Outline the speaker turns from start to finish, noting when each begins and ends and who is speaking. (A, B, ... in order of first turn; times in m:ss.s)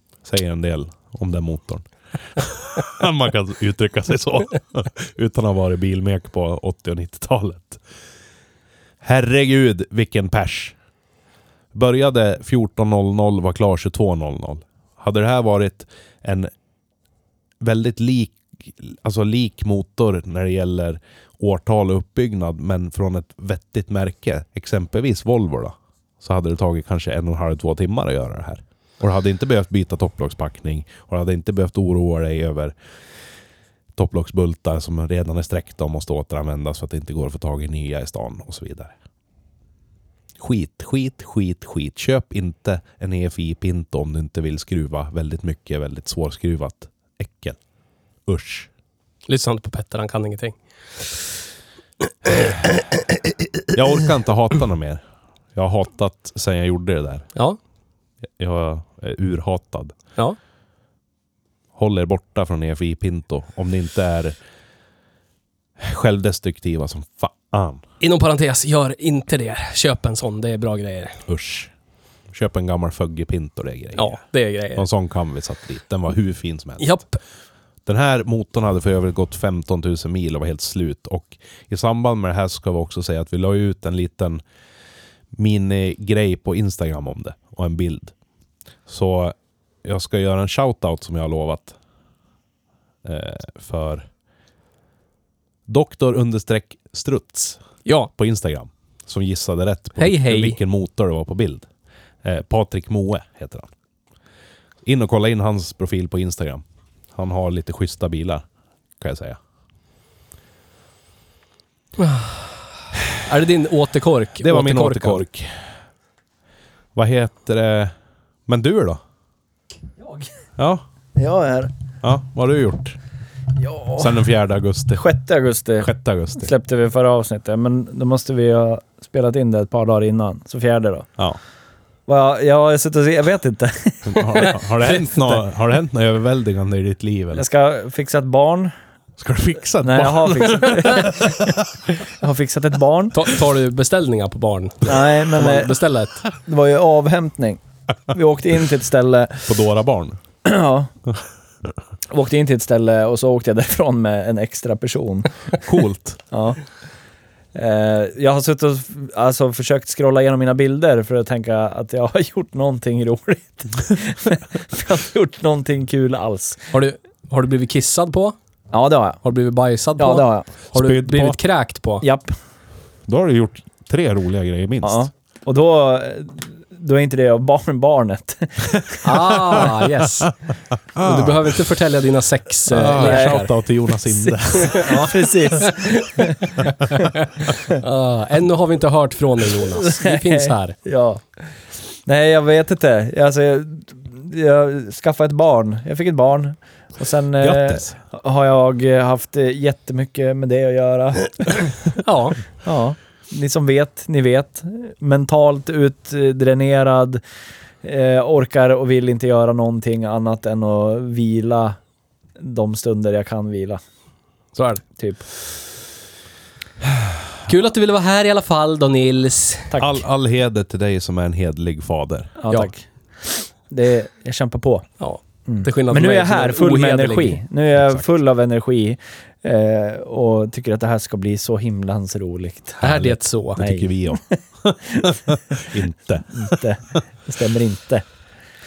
0:00.2-0:01.8 A
0:02.4-0:07.8 A
0:09.0-0:10.8 A
0:11.7-0:16.5 A
0:17.6-0:32.7 A
0:34.0-0:38.9 A
0:40.4-0:47.6 A
0:48.3-0:48.7 A
0:49.3-0:50.6 B
0:53.7-0:55.0 A
0:55.6-0:57.3 A
0:58.4-1:00.0 A
1:01.8-1:04.4 A
1:05.8-1:07.8 A
1:08.0-1:11.2 B
1:11.3-1:11.7 A
1:12.3-1:14.1 A
1:14.0-1:14.9 B
1:14.8-1:17.0 A
1:16.8-1:17.2 B
1:17.9-1:24.4 A
1:25.3-1:28.1 A
1:28.9-1:31.8 A
1:33.0-1:34.1 A
1:35.7-1:41.7 A
1:40.0-1:40.6 B
1:42.2-1:43.7 A
1:44.8-1:46.6 A
1:47.2-1:48.4 A
1:49.0-1:49.4 A
1:52.0-1:52.5 B
1:53.2-1:55.2 B
1:54.4-1:55.6 A
1:57.0-1:57.9 A
1:58.5-1:59.0 A
2:00.6-2:00.8 A
2:01.2-2:01.7 C
2:02.0-2:03.0 A
2:03.6-2:04.1 C
2:04.0-2:05.0 A
2:05.0-2:11.1 C
2:05.8-2:06.5 A
2:12.1-2:14.6 C
2:14.0-2:17.4 A
2:17.3-2:18.7 C
2:19.2-2:21.5 A
2:19.8-2:23.2 C
2:23.1-2:26.2 B
2:24.9-2:25.8 C
2:26.3-2:29.5 C
2:29.5-2:30.2 A
2:30.4-2:30.9 C
2:32.1-2:35.3 C
2:35.6-2:36.2 A
2:36.3-2:36.6 C
2:37.6-2:46.7 C
2:46.7-2:48.4 B
2:48.7-2:49.2 C
2:49.2-2:52.0 B
2:50.0-2:50.5 C
2:50.7-2:51.4 A
2:52.0-2:52.3 C
2:53.1-2:55.1 A
2:54.8-2:59.3 C
2:59.0-3:00.3 B
3:01.0-3:01.6 A
3:01.0-3:03.5 B
3:02.7-3:05.0 A
3:03.0-3:03.4 C
3:04.6-3:05.9 B
3:04.6-3:06.5 C
3:07.7-3:10.8 B
3:09.8-3:11.2 C
3:12.0-3:21.8 C
3:17.4-3:18.0 A
3:22.0-3:22.4 B
3:22.6-3:27.2 C
3:27.8-3:31.8 C
3:32.4-3:33.8 C
3:34.6-3:34.8 B
3:35.0-3:35.2 C
3:37.4-3:39.8 B
3:39.8-3:42.4 A
3:42.4-3:44.9 C
3:45.0-3:47.4 B
3:45.5-3:52.9 C
3:52.8-3:53.7 B
3:52.8-3:56.5 A
3:53.6-3:54.4 C
3:54.9-3:55.2 C
3:56.3-3:58.0 C